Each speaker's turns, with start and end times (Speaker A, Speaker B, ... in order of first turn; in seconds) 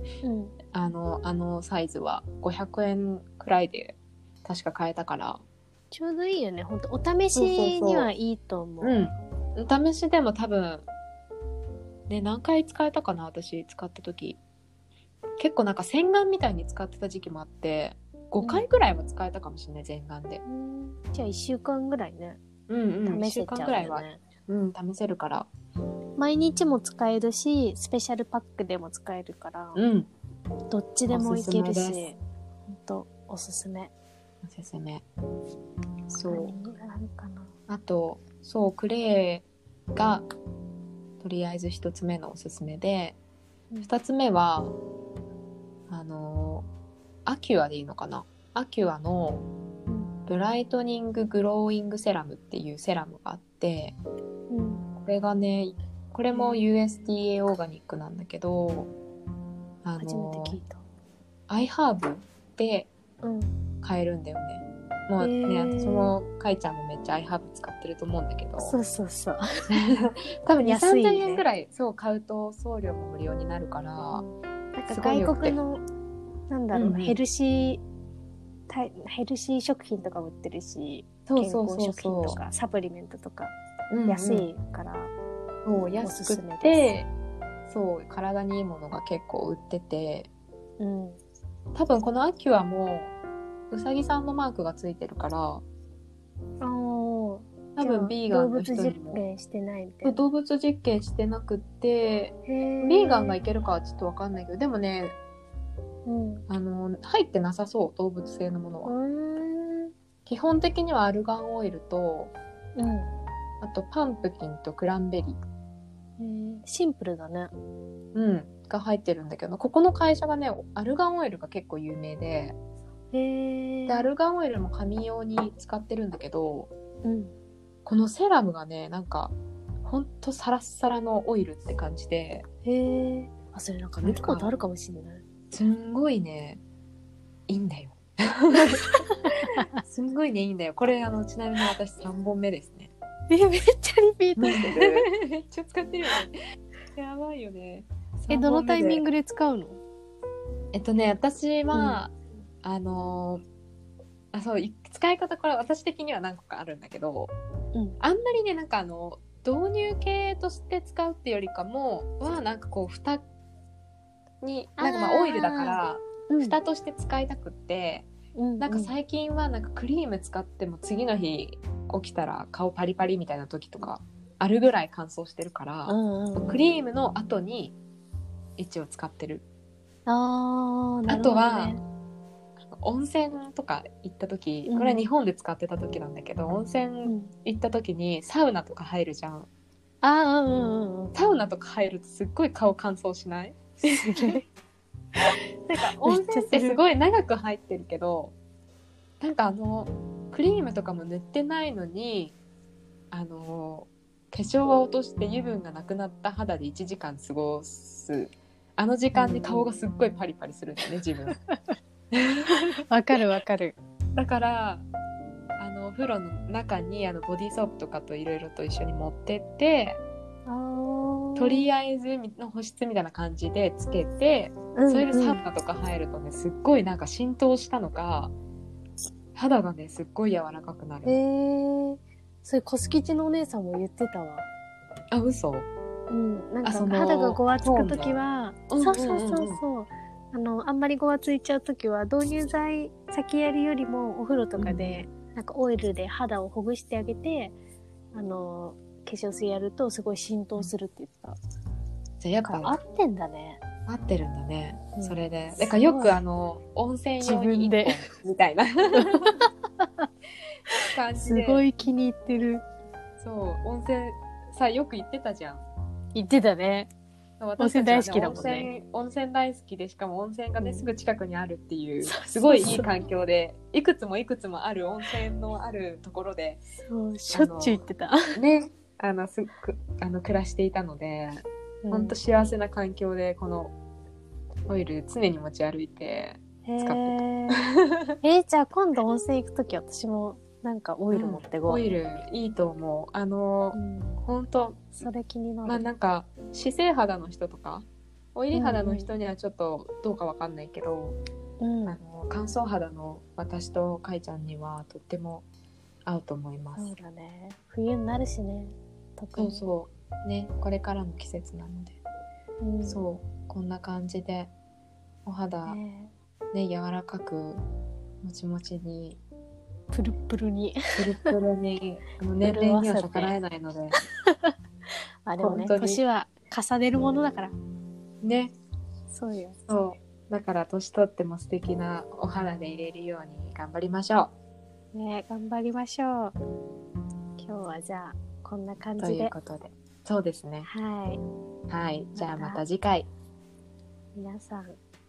Speaker A: 0.2-0.6, 5.9-9.0, 18.4-18.7, 20.5-22.4, 23.1-24.2, 26.2-29.8, 30.7-32.2, 32.7-33.9, 36.3-37.5, 49.9-50.1, 54.5-54.9, 56.3-56.6, 60.0-60.8, 63.2-63.6, 65.2-66.2, 68.6-69.4, 70.6-71.5, 74.1-75.8, 76.5-77.8, 78.7-83.5, 84.1-85.1, 86.0-86.9, 90.8-91.2, 96.6-100.2, 102.5-103.4, 106.1-106.5, 108.8-109.9, 112.8-113.1, 116.2-117.5, 123.1-124.1, 127.0-127.3, 132.7-135.2, 138.5-138.8, 139.3-139.7, 143.3-145.1, 148.3-149.8, 151.7-152.0, 164.8-166.6, 168.4-168.9, 175.9-176.6, 180.1-181.8, 184.7-185.0, 187.1-187.3, 190.0-191.2, 193.8-194.4, 195.7-196.8, 209.1-209.7, 211.3-211.6, 212.5-213.8, 220.5-221.7, 224.8-225.4, 231.1-234.5, 236.1-247.6, 248.1-251.4, 252.5-253.6, 255.0-256.2, 257.2-258.1, 259.0-260.1, 261.1-262.6, 266.1-266.9, 267.6-268.7, 270.6-270.9, 272.0-272.9, 276.9-278.4, 281.8-282.2, 286.7-291.8, 293.7-294.2, 295.0-295.8, 298.5-299.1, 301.6-302.0, 306.8-309.6, 312.6-313.0, 315.7-316.1, 319.9-321.4, 322.4-323.4, 323.9-324.5, 325.3-327.6, 329.1-329.6, 334.9-336.4, 337.4-339.3, 340.6-341.2, 342.2-342.6, 344.1-344.8
Speaker B: 0.7-5.4, 7.3-8.1, 8.8-10.9, 12.1-14.4, 15.4-20.4, 22.7-25.5, 29.8-30.1, 31.1-32.1, 34.4-35.0, 36.1-36.5, 37.7-40.3, 41.2-43.2, 43.9-44.8, 45.9-46.7, 47.3-49.5, 50.3-54.0, 55.0-58.9, 59.8-60.6, 61.5-62.9, 63.8-68.8, 69.7-74.2, 74.9-75.6, 76.7-77.2, 81.3-82.4, 83.9-84.5, 85.7-87.1, 87.7-90.3, 91.8-93.1, 93.7-95.7, 97.8-99.2, 100.0-105.2, 106.5-108.9, 110.3-112.3, 113.6-115.4, 118.2-122.6, 123.9-126.7, 127.9-132.5, 134.0-134.6, 135.5-136.6, 137.5-138.8, 139.4-142.9, 144.4-146.4, 146.9-149.0, 150.7-153.4, 154.3-157.3, 158.0-163.2, 164.4-168.1, 168.6-177.8, 178.6-179.4, 181.1-181.8, 182.6-189.5, 191.1-194.4, 195.7-198.3, 199.2-202.4, 203.1-211.4, 212.1-212.6, 214.2-214.9, 215.6-220.0, 221.4-228.3, 229.3-231.2, 235.1-235.7, 236.6-239.6, 244.6-245.1, 252.2-252.8, 253.9-259.4, 260.9-261.6, 263.2-265.6, 267.4-276.6, 277.3-277.8, 278.4-283.7, 284.7-288.1, 291.1-294.9, 295.6-301.2, 301.9-305.5, 306.1-306.9, 309.4-312.0, 312.9-314.5, 315.3-315.8, 316.5-317.6, 318.2-319.2, 321.0-324.0, 325.4-326.0, 328.2-328.6, 329.7-334.3, 339.0-340.7, 341.7-343.1